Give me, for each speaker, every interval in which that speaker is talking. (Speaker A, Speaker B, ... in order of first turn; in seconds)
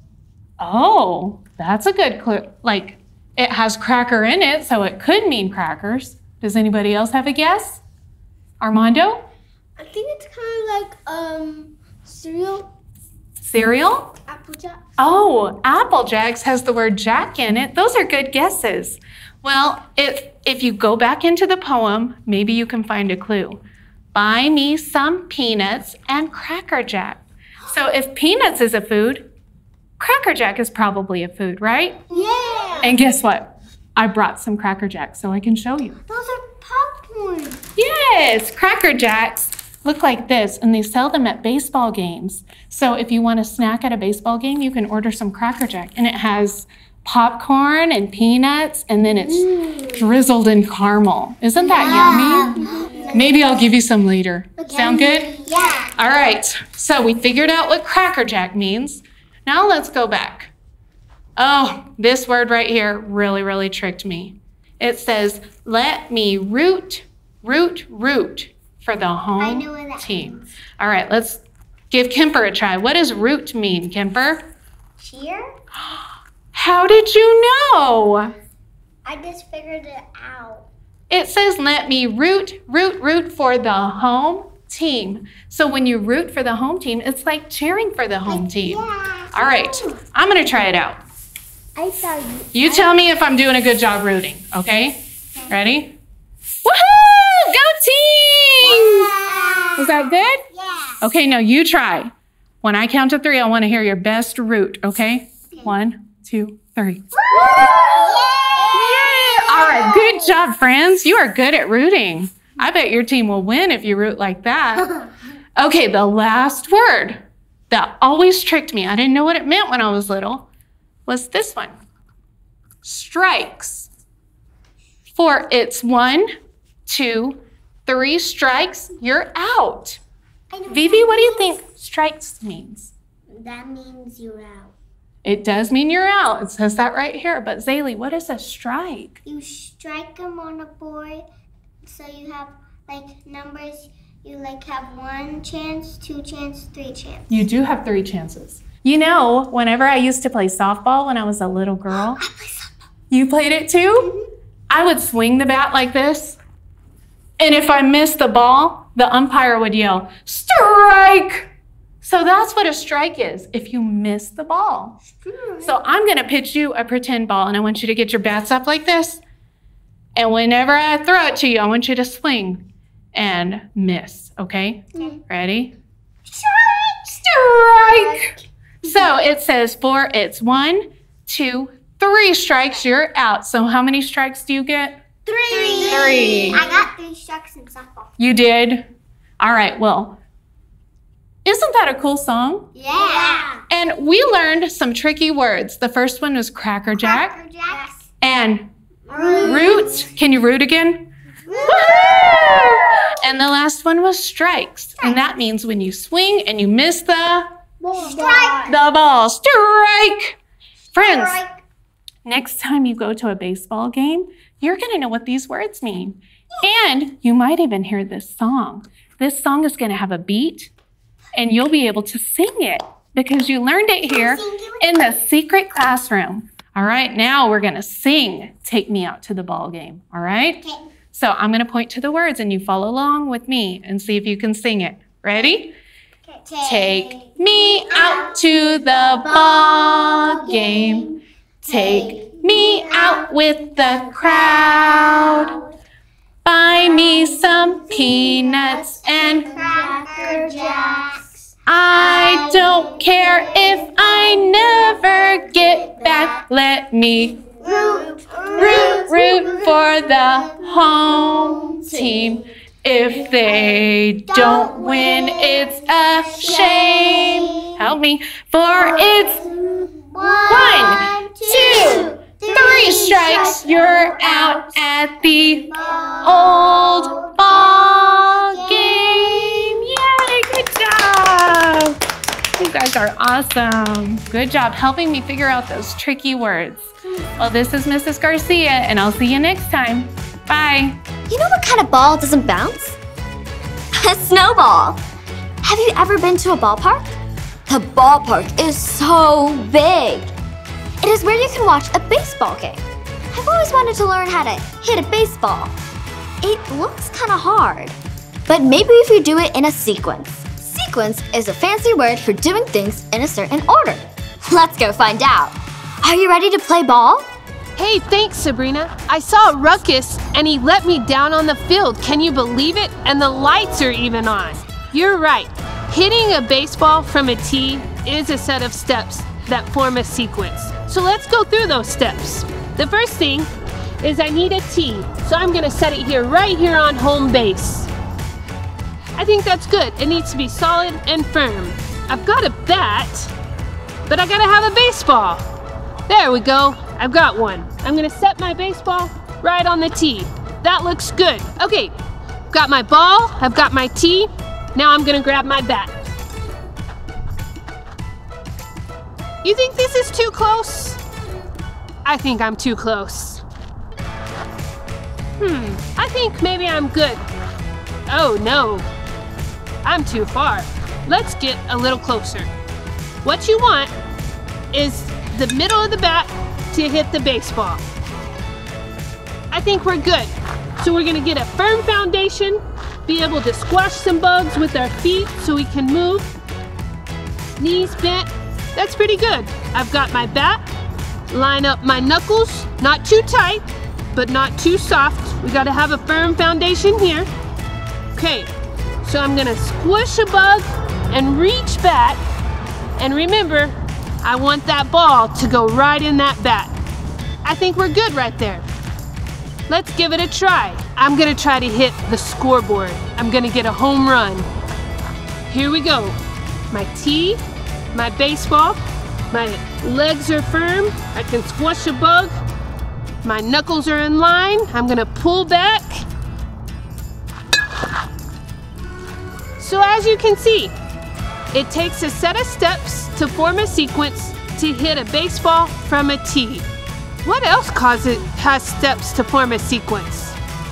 Speaker A: 0.6-7.8, 8.6-9.2, 13.4-14.1, 15.0-23.6, 24.1-29.3, 30.0-32.0, 32.8-36.0, 37.8-55.4, 56.0-60.5, 61.4-74.5, 76.5-78.3, 81.1-91.0, 92.5-96.0, 96.7-99.2, 99.8-100.4, 101.0-102.1, 102.6-108.1, 108.7-114.9, 115.6-120.5, 121.1-121.8, 122.8-123.9, 125.2-126.3, 126.9-130.0, 130.7-132.9, 135.2-139.2, 147.3-152.2, 153.1-154.1, 154.7-156.4, 157.4-161.5, 162.0-165.0, 165.6-169.2, 170.2-175.7, 177.2-178.3, 178.9-185.0, 185.5-186.7, 188.2-188.9, 189.4-190.2, 191.4-192.7, 193.7-197.4, 198.2-198.7, 199.4-201.1, 201.6-207.5, 208.7-210.4, 210.9-211.4, 212.3-220.7, 221.4-235.8, 236.6-245.6, 246.4-249.6, 251.7-257.4, 258.6-269.5, 270.5-282.0, 282.6-291.0
Speaker B: 9.8-12.7, 14.3-14.8, 32.1-33.0, 36.1-37.6, 49.4-49.9, 51.6-53.6, 54.6-55.9, 69.4-70.5, 75.0-75.5, 79.1-80.7, 88.3-90.0, 91.8-92.8, 98.7-99.9, 100.5-101.0, 107.3-110.1, 130.5-131.6, 133.3-134.7, 139.2-141.2, 141.8-147.3, 152.1-152.7, 165.2-165.7, 176.3-178.3, 185.3-188.1, 192.8-193.6, 197.0-198.0, 199.1-200.1, 201.5-202.6, 207.8-208.8, 211.0-211.5, 224.1-224.9, 236.3-241.1, 241.6-243.3, 244.2-245.6, 246.8-251.3, 251.9-256.4, 257.6-259.8, 261.2-262.4, 264.3-267.8, 268.8-279.8
Speaker C: 291.3-293.0, 294.0-295.0, 295.6-300.3, 301.0-305.8, 306.4-308.0, 308.5-317.3
Speaker D: 317.8-333.5, 334.0-337.9, 339.2-343.3, 344.1-345.4, 346.1-352.0, 352.5-355.9, 359.4-361.0, 362.1-363.4, 365.4-367.2, 368.1-368.9, 369.8-372.5, 373.2-373.9, 374.7-377.8, 379.5-386.3, 387.6-390.6, 391.3-397.3, 398.1-398.5, 399.0-402.2, 403.0-406.7, 407.4-408.6, 409.7-414.5, 415.5-416.2, 416.7-417.4, 417.9-418.8, 419.3-422.4, 423.2-426.0, 429.6-430.7, 431.5-436.7, 437.2-440.4